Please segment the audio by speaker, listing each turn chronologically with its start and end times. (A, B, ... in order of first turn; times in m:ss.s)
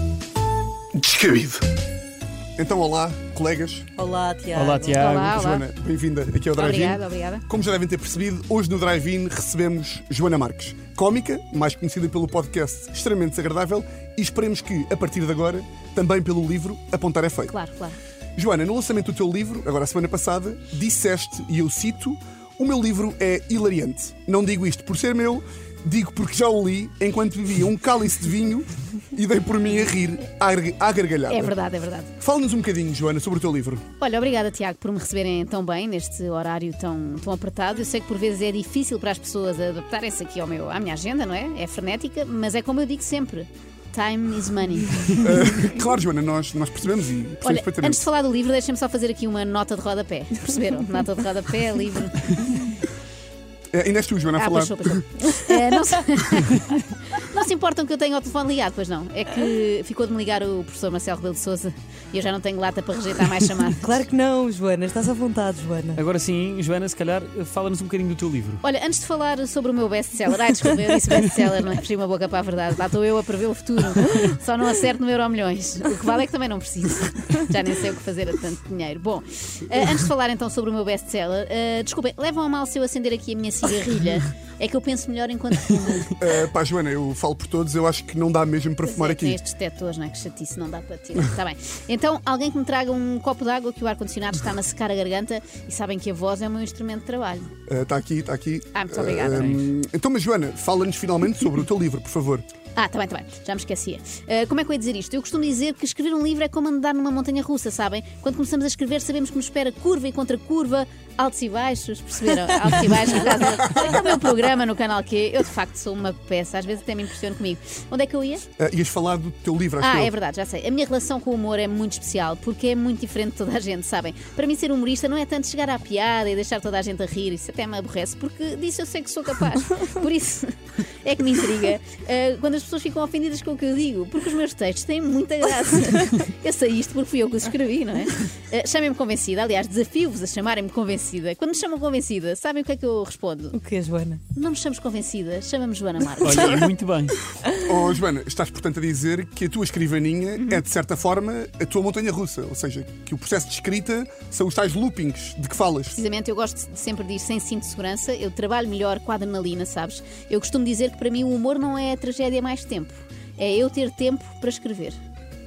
0:00.9-0:01.6 A
0:02.6-0:03.9 A
0:04.0-0:05.1 B
0:04.5-0:05.4 C
0:05.0-0:05.6 D
0:05.3-0:17.5 A
0:06.6-0:07.4 D
0:17.5-0:18.0 D
0:18.4-0:31.5 A
0:31.3-0:32.1 D
0:32.2-0:33.8 A
0:34.0-0:45.2 D
0:45.2-0:48.0 A
0:47.4-0:52.8 D
0:53.7-0:55.1 A
0:54.4-1:04.0 D
1:03.8-1:06.0 B
1:06.0-1:08.6 C
1:08.6-1:26.2 D
1:26.2-1:29.4 A
1:28.8-1:37.5 D
1:37.7-1:42.4 A
1:38.7-1:39.5 D
1:39.3-1:39.7 C
1:42.8-1:58.4 D
1:58.6-2:00.1 A
1:59.8-2:23.6 D
2:23.5-2:24.2 B
2:24.3-2:26.6 D
2:26.2-2:27.2 C
2:27.5-2:36.0 A
2:35.9-2:45.0 D